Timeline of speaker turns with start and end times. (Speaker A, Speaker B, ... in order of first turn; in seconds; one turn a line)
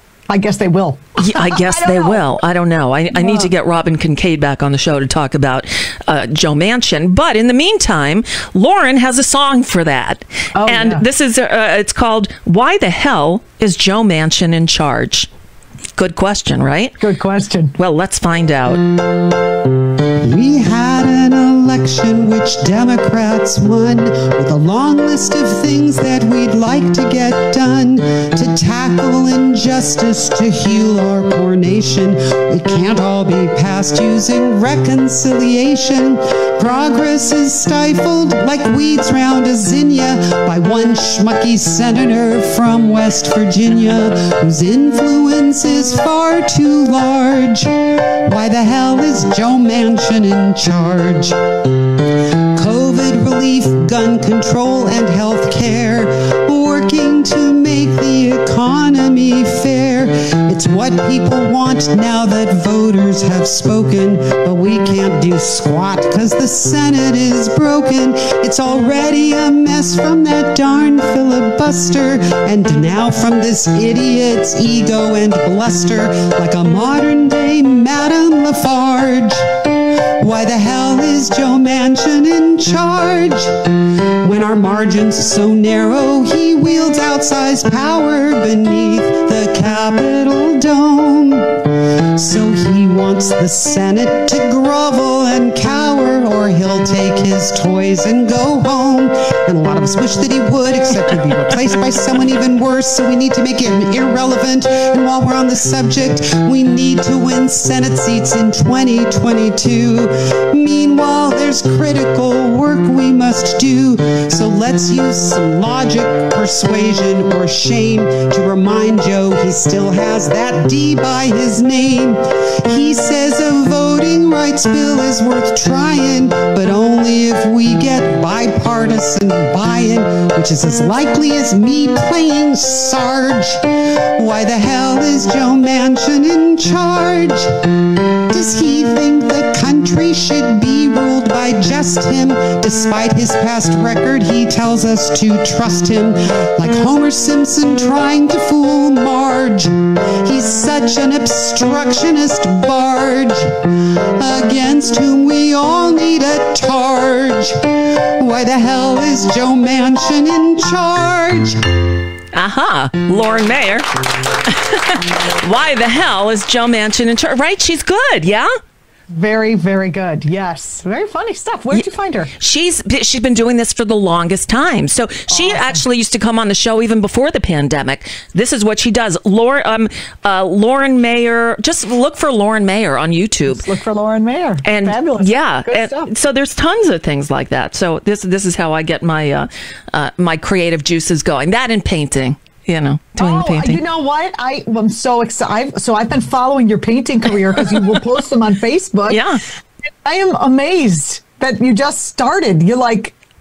Speaker A: 0.3-2.3
Speaker B: 1.2-15.3
Speaker A: 3.1-3.5
Speaker A: 10.6-11.1
Speaker B: 16.0-17.0
Speaker A: 17.0-17.7
Speaker B: 17.8-18.8
Speaker C: 20.2-51.4
Speaker C: 52.6-79.5
Speaker C: 80.2-83.7
Speaker C: 84.2-137.6
Speaker C: 138.3-161.7
Speaker B: 162.3-163.9
Speaker B: 164.4-168.5
Speaker A: 169.1-172.3
Speaker B: 171.7-183.7
Speaker A: 175.3-175.8
Speaker A: 183.5-186.1
Speaker B: 184.6-193.8
Speaker A: 193.2-199.2
Speaker B: 199.1-199.4
Speaker A: 200.1-203.1